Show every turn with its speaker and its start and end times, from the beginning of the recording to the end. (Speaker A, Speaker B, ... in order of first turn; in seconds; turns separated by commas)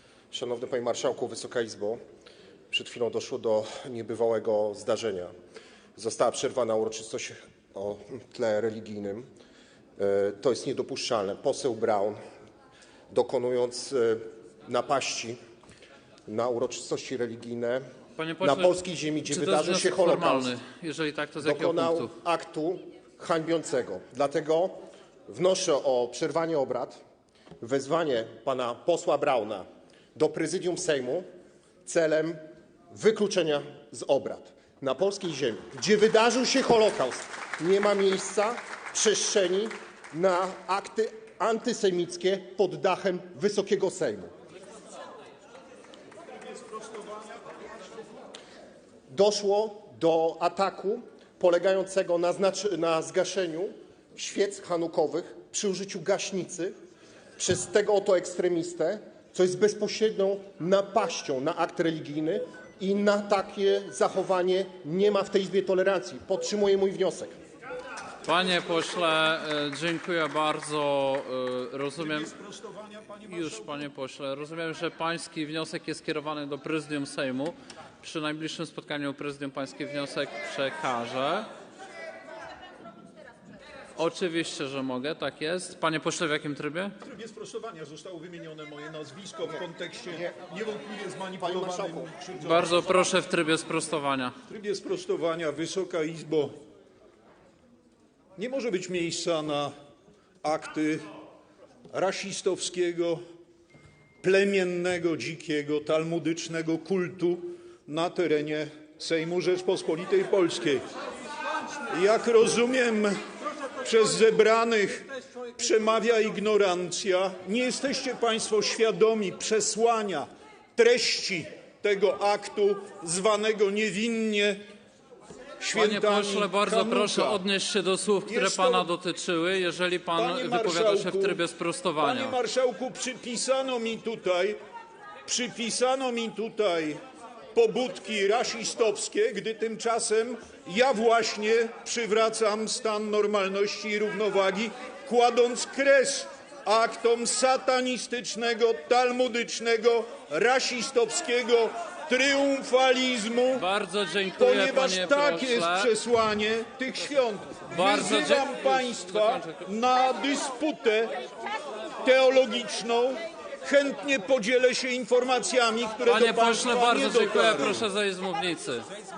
Speaker A: 0.3-2.0, Speaker A: 2.7-5.3, Speaker A: 6.0-9.2, Speaker A: 10.0-12.2, Speaker A: 13.1-15.4, Speaker A: 16.3-17.8, Speaker B: 18.2-22.1, Speaker A: 18.4-20.5, Speaker A: 21.4-24.8, Speaker A: 25.3-27.0, Speaker A: 27.6-31.2, Speaker A: 31.9-32.4, Speaker A: 32.9-44.3, Speaker C: 46.5-47.4, Speaker A: 49.1-56.7, Speaker A: 57.4-67.3, Speaker B: 68.2-72.3, Speaker C: 72.0-73.9, Speaker B: 73.2-81.5, Speaker B: 84.0-86.9, Speaker C: 87.0-93.1, Speaker A: 91.4-92.1, Speaker B: 92.4-94.3, Speaker C: 94.5-96.5, Speaker C: 98.4-99.7, Speaker C: 100.4-101.1, Speaker C: 101.9-103.2, Speaker C: 104.2-110.8, Speaker C: 111.9-113.2, Speaker C: 113.8-124.6, Speaker C: 125.6-127.4, Speaker B: 125.7-132.4, Speaker C: 128.2-128.9, Speaker C: 130.2-131.4, Speaker C: 132.0-134.6, Speaker C: 135.2-137.0, Speaker C: 137.5-153.6, Speaker B: 153.5-155.9, Speaker C: 154.4-161.2, Speaker B: 157.7-159.7, Speaker C: 162.0-167.9, Speaker B: 166.0-168.9